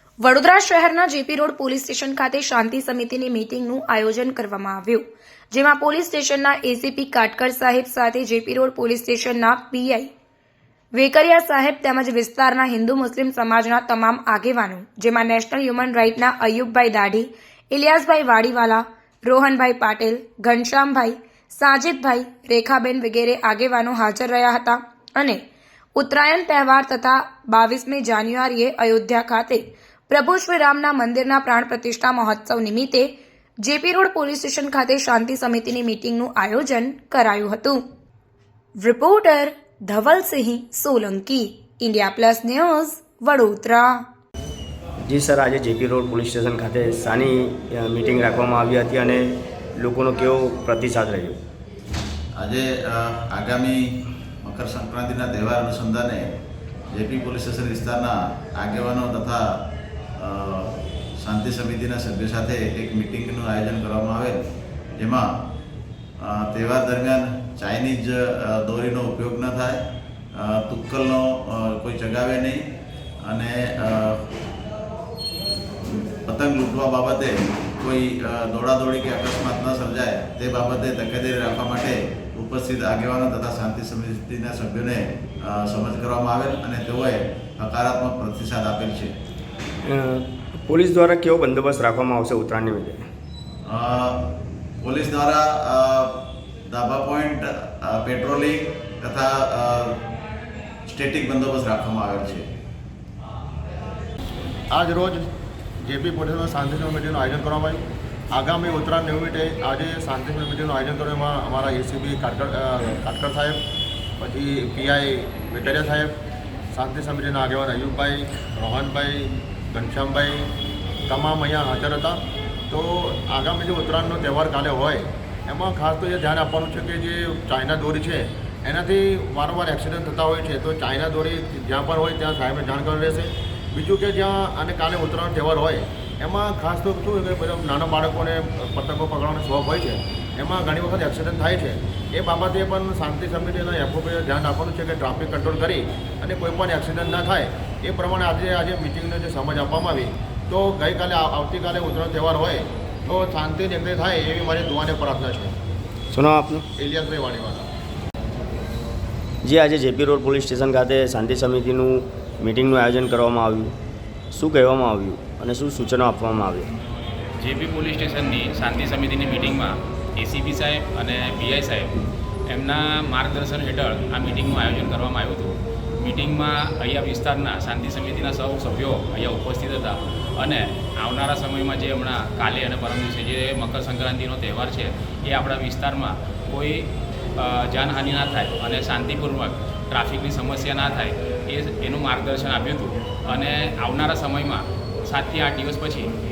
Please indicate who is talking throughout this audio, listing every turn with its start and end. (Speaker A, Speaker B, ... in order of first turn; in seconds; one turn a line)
Speaker A: 0.2-10.1
Speaker A: 10.9-25.4
Speaker A: 26.0-33.1
Speaker A: 33.6-37.8
Speaker A: 38.8-44.0
Speaker B: 45.1-51.4
Speaker C: 52.4-53.8
Speaker C: 54.4-56.2
Speaker C: 56.9-59.4
Speaker C: 60.2-64.4
Speaker C: 65.0-65.2
Speaker C: 66.2-69.8
Speaker C: 70.3-72.6
Speaker C: 73.3-74.2
Speaker C: 76.3-89.1
Speaker B: 89.9-93.1
Speaker C: 93.7-94.2
Speaker C: 94.8-96.1
Speaker C: 96.7-100.0
Speaker C: 100.9-102.5
Speaker D: 104.7-105.3
Speaker D: 105.8-113.6
Speaker D: 114.2-116.1
Speaker D: 116.7-120.5
Speaker D: 121.1-155.6
Speaker B: 156.1-156.7
Speaker D: 156.8-157.7
Speaker B: 159.4-163.8
Speaker B: 164.3-166.7
Speaker E: 167.4-172.0
Speaker E: 172.5-196.1